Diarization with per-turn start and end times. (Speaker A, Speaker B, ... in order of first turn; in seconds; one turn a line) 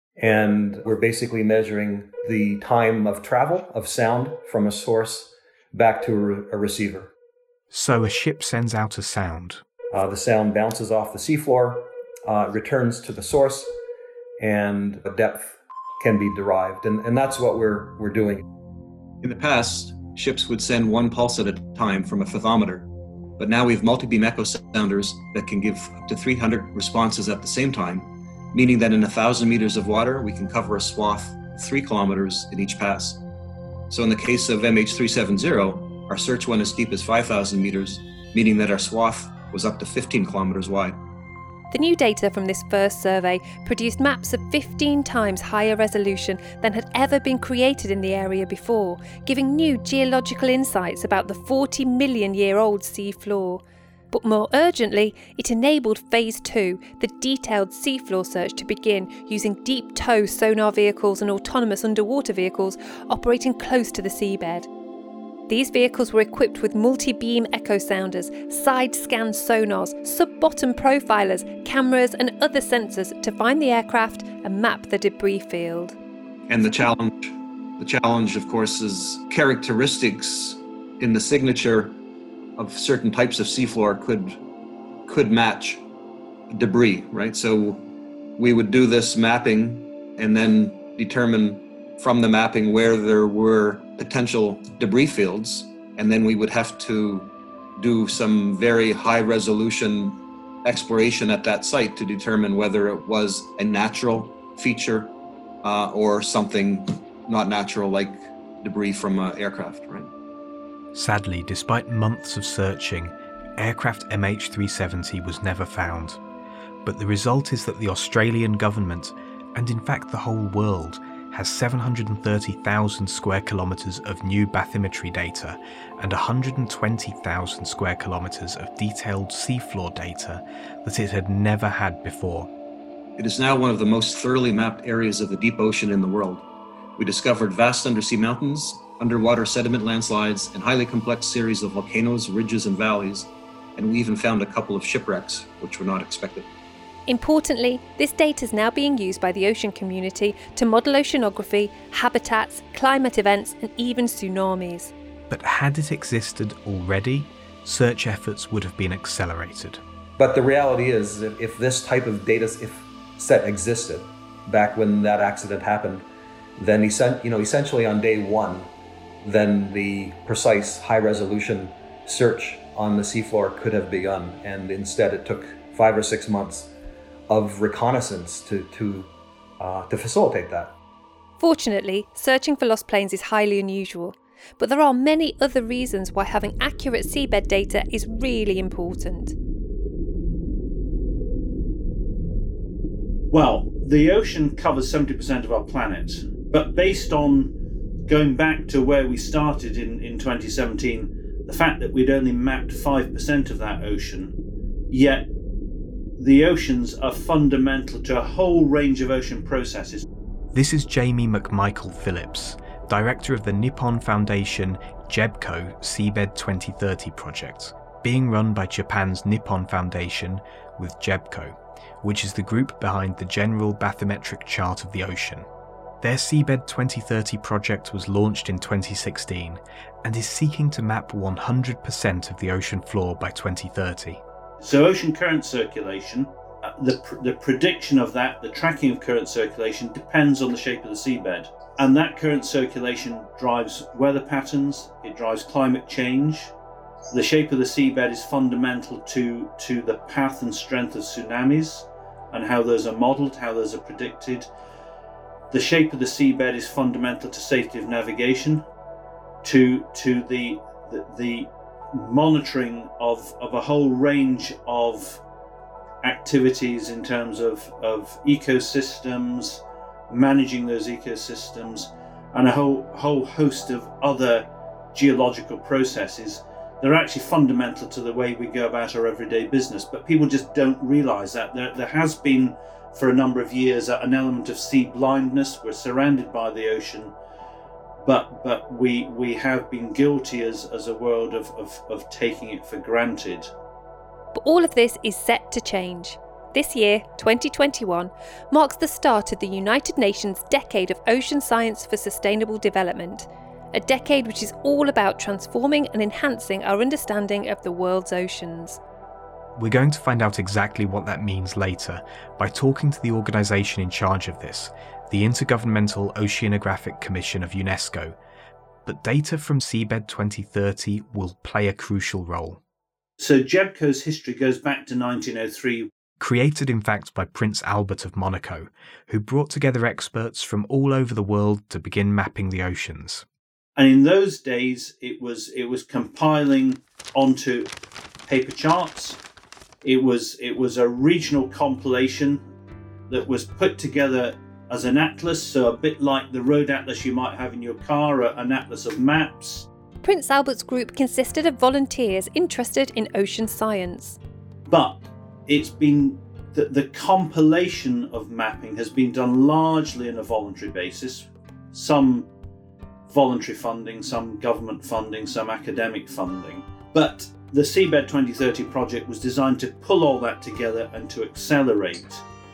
Speaker A: 0.2-7.1
Speaker B: 7.7-9.6
Speaker A: 9.9-13.8
Speaker A: 14.4-18.4
Speaker C: 19.2-33.2
Speaker C: 33.9-41.0
Speaker D: 41.7-64.7
Speaker D: 65.5-76.0
Speaker C: 76.5-82.0
Speaker C: 82.6-84.4
Speaker C: 85.1-85.8
Speaker C: 86.5-87.8
Speaker C: 88.4-110.1
Speaker B: 110.9-116.2
Speaker B: 116.8-132.5
Speaker C: 133.2-136.4
Speaker C: 137.0-146.5
Speaker D: 147.1-154.9
Speaker B: 155.3-159.8
Speaker A: 160.2-166.1
Speaker A: 166.6-168.7
Speaker A: 169.2-176.7
Speaker A: 177.3-180.8
Speaker D: 181.4-189.3
Speaker E: 193.3-197.5
Speaker E: 198.1-204.3
Speaker E: 204.9-205.3
Speaker E: 206.2-210.1
Speaker B: 210.5-225.4
Speaker B: 226.0-234.2
Speaker E: 234.6-246.5
Speaker E: 247.1-254.5
Speaker E: 255.5-258.7
Speaker E: 259.4-265.2
Speaker E: 266.0-287.1
Speaker E: 288.0-293.5
Speaker D: 294.3-308.8
Speaker B: 309.6-318.2
Speaker B: 318.8-322.6
Speaker E: 323.2-325.9
Speaker B: 326.2-333.2
Speaker E: 333.8-337.7
Speaker E: 338.3-339.2
Speaker E: 339.8-342.4
Speaker E: 343.1-349.7
Speaker D: 350.0-354.2
Speaker E: 354.7-362.3
Speaker E: 363.1-372.2